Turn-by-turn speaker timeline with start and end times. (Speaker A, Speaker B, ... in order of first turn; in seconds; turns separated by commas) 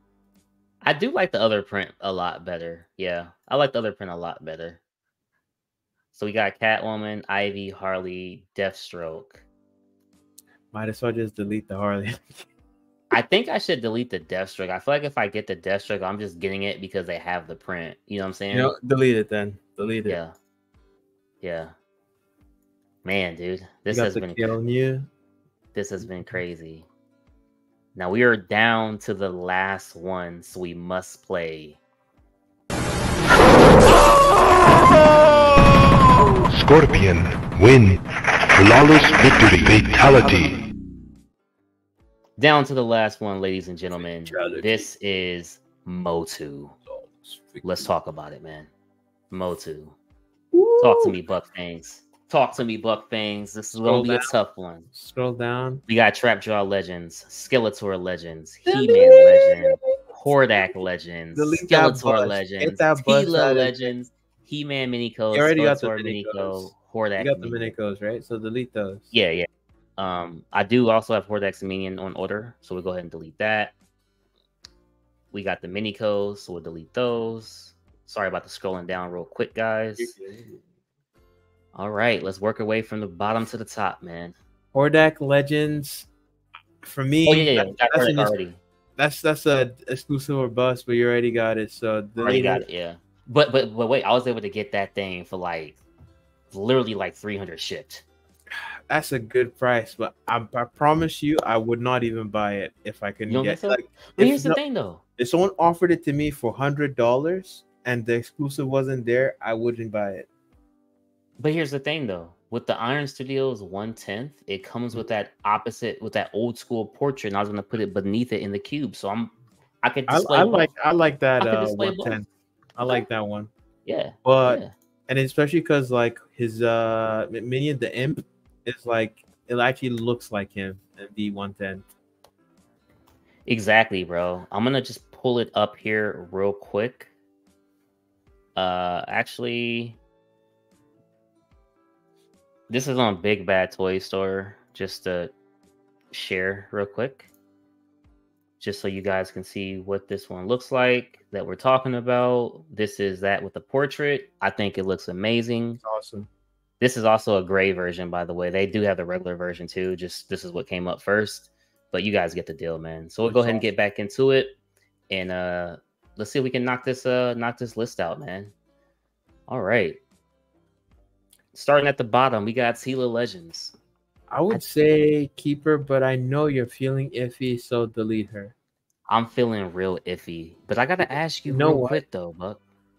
Speaker A: 0.8-4.8, Speaker A: 6.1-9.4, Speaker B: 10.7-12.5, Speaker A: 13.1-18.7, Speaker B: 18.5-20.2, Speaker A: 20.1-20.3, Speaker A: 21.4-21.7, Speaker A: 23.0-24.4, Speaker B: 23.9-25.1, Speaker A: 25.7-26.9, Speaker A: 27.9-31.8, Speaker C: 36.5-40.6, Speaker A: 42.4-46.8, Speaker B: 44.2-44.9, Speaker B: 46.9-47.7, Speaker A: 47.6-48.7, Speaker A: 49.3-50.0, Speaker B: 50.5-51.1, Speaker A: 50.8-54.9, Speaker B: 53.8-54.3, Speaker B: 54.9-55.8, Speaker A: 55.9-67.7, Speaker B: 58.7-59.9, Speaker B: 61.3-63.7, Speaker B: 65.3-69.1, Speaker A: 69.1-73.7, Speaker A: 75.3-80.1, Speaker B: 80.0-80.6, Speaker A: 81.7-84.3, Speaker B: 84.7-86.1, Speaker B: 86.8-88.4, Speaker A: 87.2-88.6, Speaker B: 89.0-92.6, Speaker A: 92.2-95.8, Speaker A: 96.5-98.0, Speaker B: 98.5-104.6, Speaker A: 103.3-105.0, Speaker B: 105.2-110.3, Speaker A: 111.4-120.7, Speaker B: 120.1-123.5, Speaker A: 121.4-122.2, Speaker A: 123.8-124.7, Speaker B: 124.2-131.8, Speaker A: 133.5-137.1, Speaker A: 138.6-140.0, Speaker A: 142.7-145.3, Speaker A: 146.1-147.3, Speaker A: 148.6-155.8, Speaker B: 155.8-156.3, Speaker A: 156.8-164.5, Speaker B: 163.2-163.6, Speaker A: 165.1-168.5, Speaker A: 169.5-170.0, Speaker A: 171.5-173.7, Speaker B: 174.3-178.5, Speaker A: 179.1-182.6, Speaker B: 181.4-182.0